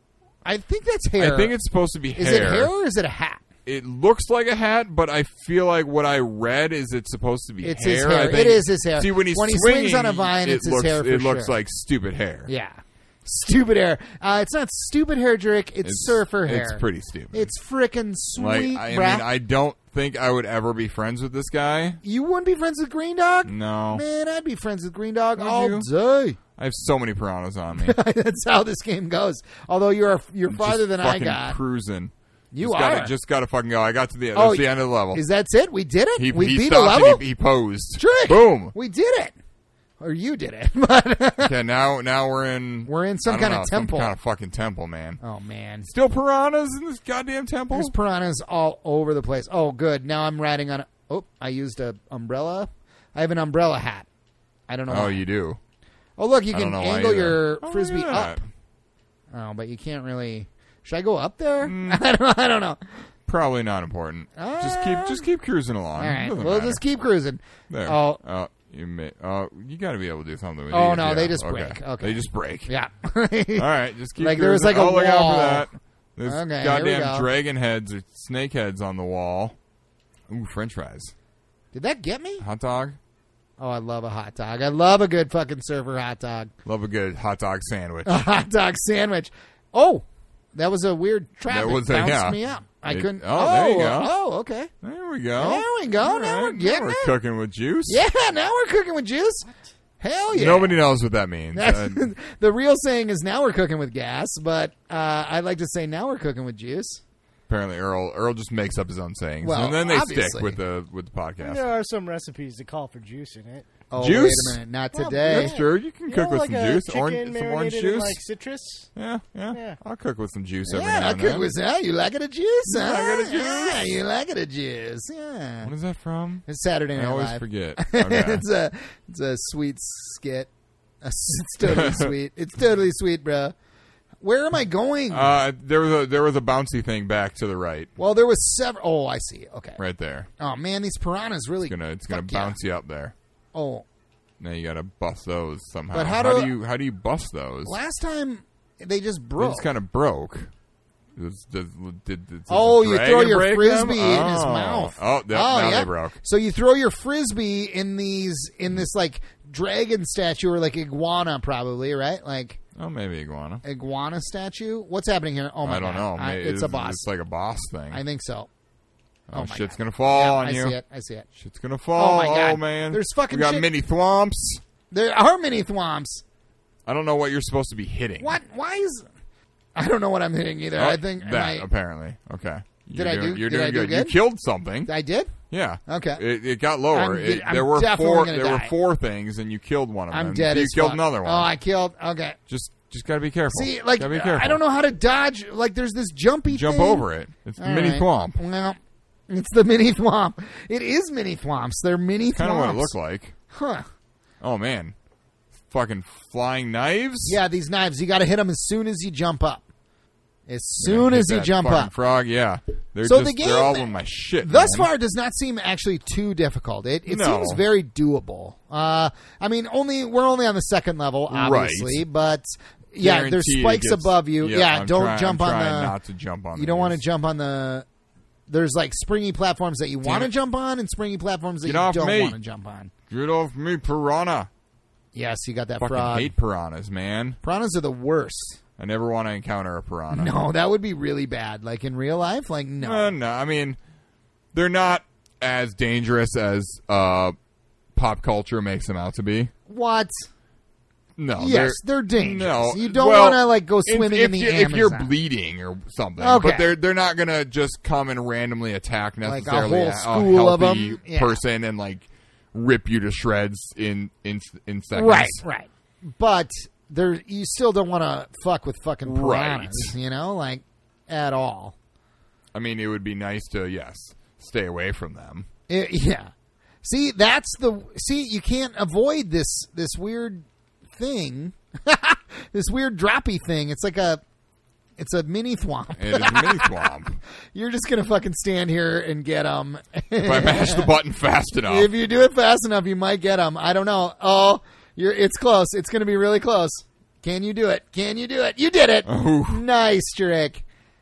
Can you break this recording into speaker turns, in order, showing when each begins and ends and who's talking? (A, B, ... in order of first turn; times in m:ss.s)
0:00.4-0:01.5 A
0:01.2-0:02.7 B
0:02.2-0:03.4 A
0:03.6-0:12.5 B
0:07.6-0:11.5 A
0:12.5-0:19.2 A
0:15.8-0:17.5 B
0:18.4-0:22.0 B
0:22.0-0:26.4 A
0:23.4-0:24.0 B
0:25.4-0:25.9 B
0:26.6-0:28.0 B
0:27.8-0:31.6 A
0:30.5-0:35.2 B
0:32.5-0:33.1 A
0:34.3-0:37.2 A
0:36.2-0:38.7 B
0:38.0-0:39.4 A
0:40.0-0:41.5 A
0:41.4-0:45.2 B
0:42.8-0:44.1 A
0:45.2-0:45.9 A
0:45.8-0:47.9 B
0:47.7-0:54.1 A
0:54.7-0:55.2 A
0:54.9-0:55.6 B
0:56.2-0:58.4 A
0:56.5-0:58.4 B
0:59.3-1:02.8 A
1:01.6-1:02.0 B
1:03.3-1:06.8 B
1:04.4-1:05.3 A
1:06.0-1:08.2 A
1:07.7-1:12.7 B
1:10.7-1:15.7 A
1:13.6-1:19.6 B
1:16.2-1:17.3 A
1:20.3-1:21.1 B
1:21.7-1:22.4 A
1:22.4-1:23.0 B
1:23.6-1:26.5 A
1:26.6-1:28.2 B
1:28.0-1:34.7 A
1:31.5-1:34.1 B
1:34.8-1:38.0 B
1:35.4-1:37.1 A
1:37.9-1:39.5 A
1:40.0-1:40.8 A
1:40.3-1:42.1 B
1:41.5-1:47.0 A
1:47.5-1:51.7 B
1:49.4-1:50.6 A
1:51.4-1:53.7 C
1:53.9-1:55.5 A
1:54.0-1:54.6 B
1:54.9-1:58.9 C
1:55.2-1:58.2 B
1:58.9-2:01.5 B
1:59.5-1:59.8 C
2:00.6-2:05.7 A
2:02.7-2:03.9 B
2:05.6-2:08.4 B
2:06.4-2:10.5 A
2:11.0-2:13.5 A
2:11.6-2:12.1 B
2:14.2-2:15.3 A
2:15.1-2:17.9 B
2:18.0-2:19.8 A
2:19.8-2:20.3 B
2:20.4-2:22.6 A
2:21.6-2:23.1 B
2:23.5-2:23.8 A
2:24.4-2:27.8 B
2:25.9-2:26.5 A
2:27.6-2:29.7 A
2:29.4-2:30.5 B
2:31.2-2:36.2 B
2:32.5-2:42.6 A
2:42.8-2:43.6 B
2:43.6-2:47.0 A
2:45.6-2:48.0 B
2:47.9-2:48.5 A
2:49.3-2:50.8 B
2:49.3-2:51.2 A
2:51.3-2:54.6 B
2:52.0-2:53.7 A
2:54.9-2:56.2 A
2:56.8-2:58.4 B
2:58.2-2:59.0 A
2:59.8-3:01.6 A
3:00.7-3:04.9 B
3:02.9-3:04.2 A
3:04.8-3:05.3 A
3:05.5-3:11.5 B
3:05.9-3:06.2 A
3:06.9-3:08.7 A
3:10.1-3:12.4 A
3:12.5-3:14.6 B
3:13.5-3:17.0 A
3:16.5-3:18.4 B
3:17.6-3:18.8 A
3:19.3-3:22.9 A
3:22.3-3:23.3 B
3:23.5-3:23.8 A
3:24.4-3:24.9 B
3:25.7-3:27.4 B
3:27.2-3:29.6 A
3:30.5-3:31.9 A
3:30.8-3:34.9 B
3:33.0-3:46.0 A
3:37.1-3:37.6 B
3:41.3-3:42.0 B
3:43.0-3:47.0 B
3:46.5-3:47.8 A
3:48.5-3:52.9 A
3:50.0-3:50.3 B
3:51.6-3:52.4 B
3:53.1-3:54.5 B
3:55.1-3:56.3 A
3:55.8-3:57.4 B
3:57.4-3:58.6 A
3:58.8-4:00.3 B
4:00.1-4:03.1 A
4:02.8-4:03.8 B
4:04.5-4:07.3 B
4:08.0-4:09.5 B
4:09.7-4:10.3 A
4:11.2-4:25.4 B
4:11.4-4:15.1 A
4:16.2-4:16.7 A
4:19.2-4:21.4 A
4:24.9-4:31.7 A
4:29.0-4:29.9 B
4:32.5-4:35.5 B
4:35.7-4:36.3 A
4:36.8-4:44.2 A
4:45.0-4:46.9 A
4:46.0-4:47.2 B
4:47.5-4:50.9 A
4:50.2-4:51.9 B
4:51.7-5:00.6 A
4:59.0-4:59.6 B